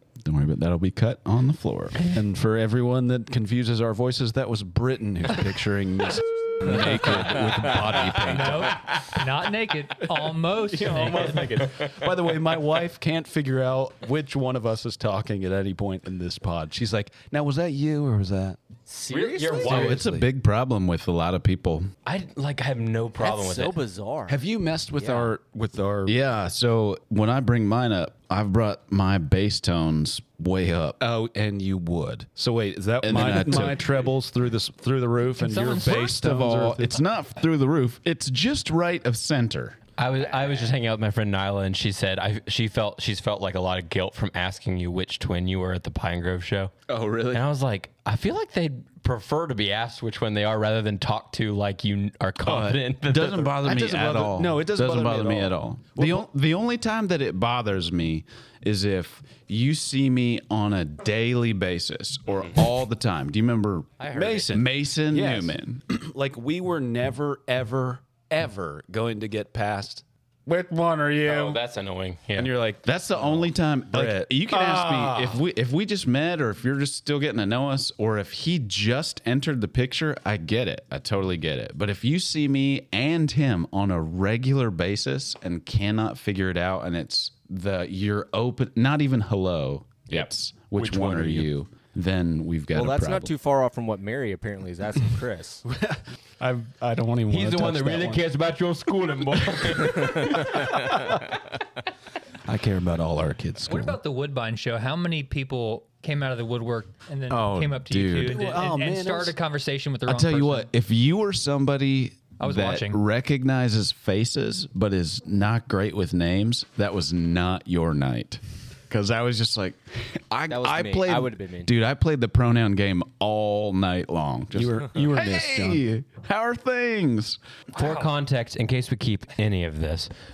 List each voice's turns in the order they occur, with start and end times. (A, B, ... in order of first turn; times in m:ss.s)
0:00.2-0:02.0 A
0:02.0-0:08.9 B
0:06.6-0:07.2 A
0:07.9-0:08.3 A
0:08.3-0:11.6 C
0:10.7-0:20.3 B
0:11.6-0:11.9 D
0:18.9-0:19.8 E
0:19.1-0:20.1 D
0:19.6-0:21.9 A
0:22.0-0:23.8 D
0:23.2-0:24.4 E
0:24.3-0:26.2 B
0:25.0-0:25.4 E
0:26.1-0:31.0 A
0:31.0-0:37.0 B
0:33.0-0:33.9 A
0:35.4-0:36.2 C
0:35.8-0:39.8 A
0:40.0-0:46.8 D
0:46.9-0:47.4 B
0:47.3-0:53.6 D
0:52.4-1:05.8 A
0:53.6-0:56.3 B
1:04.0-1:04.5 D
1:04.1-1:11.6 B
1:11.2-1:12.6 D
1:12.4-1:15.4 B
1:12.8-1:33.3 A
1:30.1-1:31.5 D
1:32.7-1:35.6 E
1:35.7-1:38.3 B
1:37.3-1:40.4 D
1:39.6-1:41.2 B
1:40.4-1:40.6 E
1:42.5-1:44.0 B
1:43.7-1:50.7 C
1:47.3-1:48.4 A
1:48.2-1:49.4 B
1:50.1-2:07.4 A
1:52.4-1:53.0 C
2:00.5-2:01.7 E
2:04.5-2:05.8 B
2:07.8-2:08.1 C
2:07.8-2:10.1 D